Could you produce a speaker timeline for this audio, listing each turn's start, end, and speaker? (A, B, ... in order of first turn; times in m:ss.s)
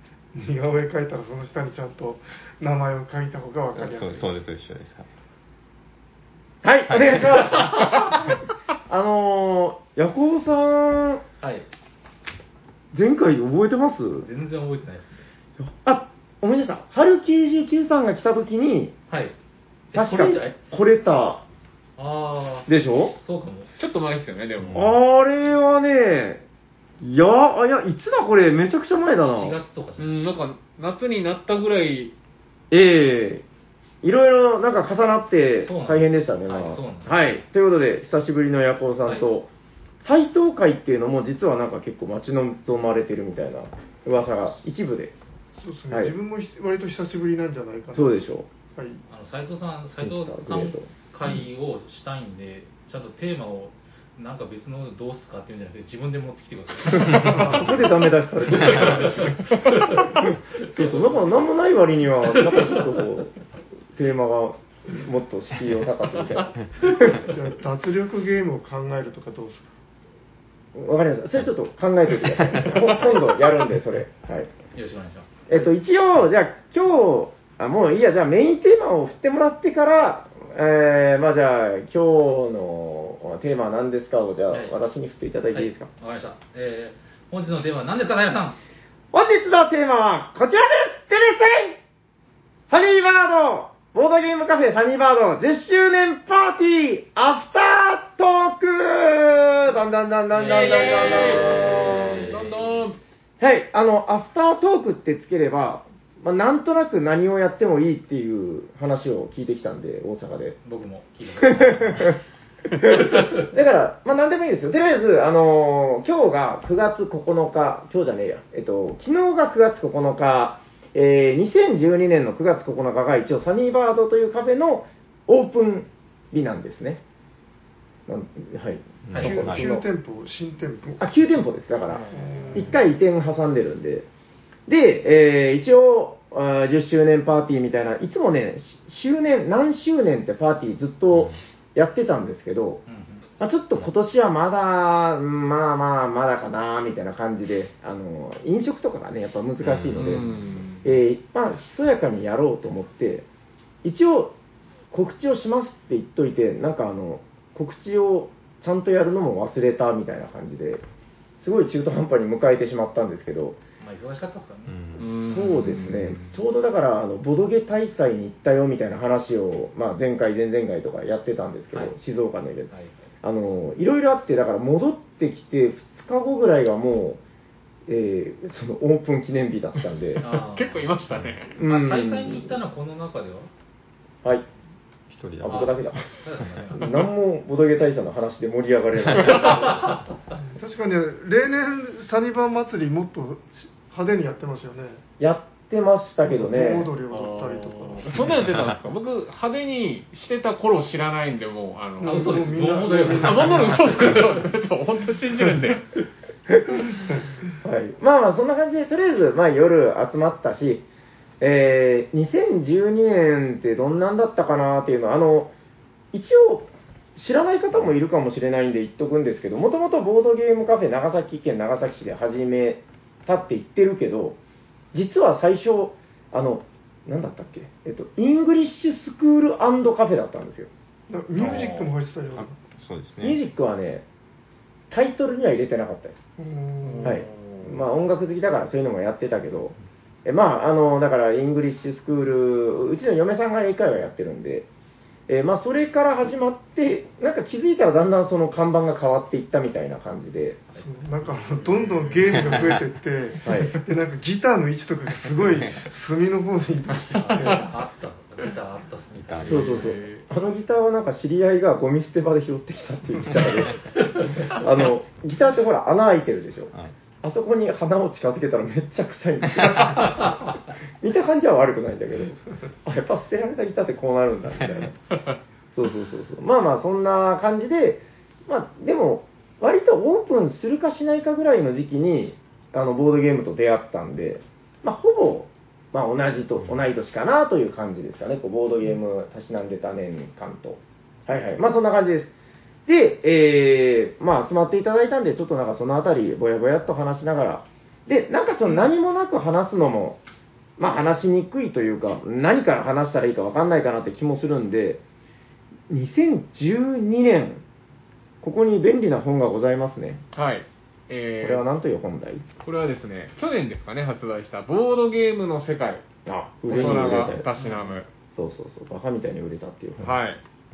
0:00.3-0:04.4 A
0:03.7-0:05.1 B
0:06.6-0:08.2 C
0:06.9-0:07.5 B
0:08.9-0:11.2 C
0:11.4-0:11.6 D
0:12.9-0:14.3 C
0:14.2-0:15.2 D
0:15.6-0:18.9 C
0:19.9-0:20.6 D
0:19.9-0:21.4 C
0:22.0-0:23.7 D
0:22.7-0:23.2 C
0:23.8-0:24.9 E
0:24.7-0:26.4 C
0:27.0-0:29.6 C
0:29.2-0:30.2 D
0:30.0-0:32.1 E
0:32.7-0:33.4 C
0:34.0-0:39.5 C
0:35.6-0:37.4 D
0:40.0-0:45.1 C
0:45.5-0:48.1 A
0:45.9-0:46.2 C
0:47.9-0:48.5 C
0:48.7-0:49.0 A
0:49.1-0:57.5 D
0:50.0-0:50.9 C
0:57.0-0:59.4 C
0:57.1-0:57.7 A
0:58.6-1:00.2 D
1:00.0-1:03.3 C
1:02.5-1:02.8 D
1:03.9-1:07.2 C
1:06.8-1:09.7 A
1:10.7-1:14.5 C
1:14.7-1:15.3 D
1:15.5-1:25.9 C
1:24.5-1:24.8 D
1:25.5-1:28.6 D
1:29.1-1:31.8 C
1:32.7-1:42.3 C
1:40.3-1:42.5 D
1:40.4-1:43.0 E
1:43.4-1:50.6 C
1:50.6-1:52.1 D
1:51.4-1:52.2 C
1:52.8-2:07.0 C
1:53.0-1:53.4 D
2:08.1-2:09.9 C
2:09.1-2:09.7 B
2:09.2-2:11.1 A
2:11.0-2:14.1 C
2:12.1-2:12.8 A
2:14.7-2:22.8 C
2:22.9-2:23.2 D
2:23.4-2:30.2 C
2:29.6-2:30.4 B
2:29.9-2:30.8 E
2:30.8-2:33.2 C
2:33.8-2:34.3 C
2:34.9-2:40.8 C
2:41.4-2:43.6 C
2:43.8-2:44.8 D
2:44.7-2:46.3 B
2:45.0-2:46.0 E
2:45.1-2:52.7 C
2:53.2-2:57.2 C
2:57.9-3:00.2 C
3:00.2-3:00.9 D
3:00.2-3:01.5 E
3:01.6-3:02.6 C
3:01.6-3:03.5 D
3:05.1-3:05.9 B
3:05.4-3:06.0 C
3:05.4-3:06.9 D
3:06.7-3:09.8 C
3:09.3-3:10.0 D
3:10.3-3:15.0 A
3:15.2-3:16.9 C
3:16.3-3:18.1 A
3:17.1-3:22.5 E
3:18.3-3:18.7 B
3:22.0-3:24.2 A
3:22.0-3:24.4 D
3:23.2-3:25.8 E
3:27.6-3:30.8 C
3:31.4-3:35.5 C
3:36.1-3:44.4 C
3:44.9-3:50.7 C
3:51.1-3:52.5 A
3:51.4-3:53.4 B
3:53.2-3:54.0 C
3:54.9-3:56.2 C
3:56.4-3:57.2 A
3:56.8-3:57.8 E
3:57.0-4:04.7 C
4:05.3-4:10.6 C
4:10.8-4:17.7 A
4:12.3-4:12.8 B
4:13.4-4:13.8 C
4:15.3-4:15.8 B
4:17.1-4:19.8 D
4:19.1-4:19.9 B
4:19.4-4:35.0 C
4:19.4-4:20.2 E
4:29.6-4:30.0 B
4:35.7-4:52.3 C
4:52.8-5:00.2 C
5:00.8-5:05.0 C
5:05.9-5:07.6 C
5:08.4-5:10.2 C
5:10.3-5:11.6 E
5:11.4-5:12.4 C
5:12.6-5:16.0 E
5:16.2-5:17.5 C
5:16.7-5:18.1 E
5:18.3-5:20.2 C
5:20.0-5:20.4 E